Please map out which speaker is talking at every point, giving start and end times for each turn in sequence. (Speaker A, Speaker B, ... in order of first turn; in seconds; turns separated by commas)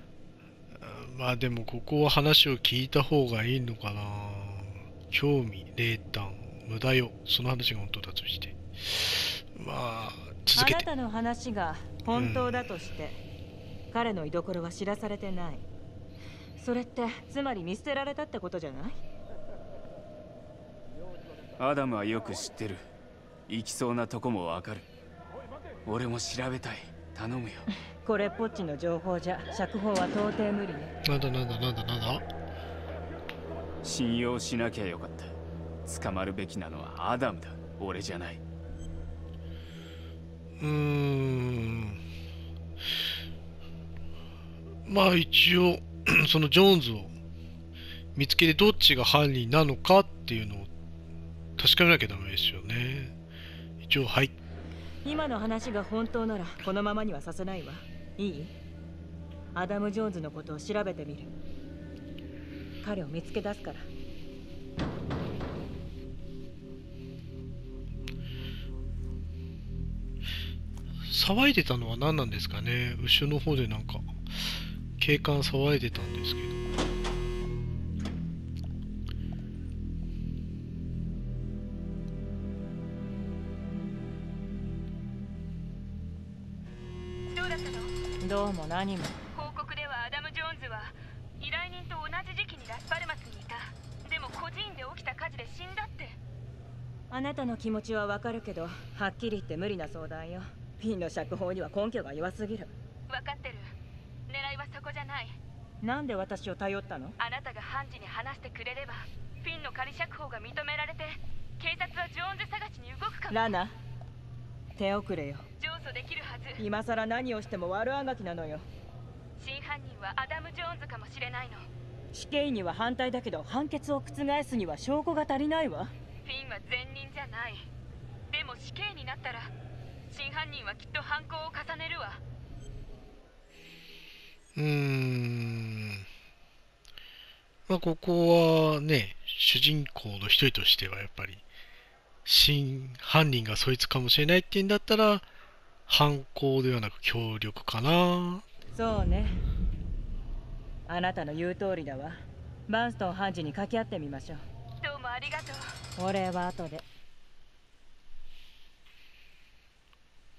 Speaker A: 0.8-10.8, Speaker B: 10.6-13.2, Speaker A: 12.1-12.6, Speaker B: 13.9-15.6, Speaker B: 16.6-19.0, Speaker C: 21.6-22.9, Speaker C: 23.5-24.9, Speaker C: 25.9-27.7, Speaker B: 28.0-30.9, Speaker A: 31.0-32.2, Speaker C: 33.8-38.4, Speaker A: 40.6-42.0, Speaker A: 44.9-47.1, Speaker A: 48.1-50.7, Speaker A: 51.6-53.1, Speaker A: 53.8-54.3, Speaker B: 55.0-58.5, Speaker B: 59.5-61.3, Speaker B: 62.8-63.9, Speaker A: 71.1-74.1, Speaker A: 75.0-76.6, Speaker D: 87.3-87.9, Speaker B: 88.2-89.2, Speaker D: 89.3-96.2, Speaker B: 97.1-102.7, Speaker D: 103.1-103.7, Speaker D: 104.3-105.4, Speaker B: 105.8-107.1, Speaker D: 107.2-113.6, Speaker B: 113.3-113.7, Speaker B: 114.8-115.4, Speaker D: 115.6-116.6, Speaker B: 116.6-118.7, Speaker D: 119.4-121.7, Speaker B: 122.1-125.9, Speaker D: 126.2-127.7, Speaker D: 128.3-129.5, Speaker D: 130.1-132.2, Speaker A: 134.6-136.0, Speaker A: 137.7-141.4, Speaker A: 142.2-145.2, Speaker A: 145.9-148.4, Speaker B: 148.7-149.4, Speaker B: 150.9-152.2, Speaker B: 152.7-154.4, Speaker D: 154.8-155.7, Speaker B: 156.0-156.8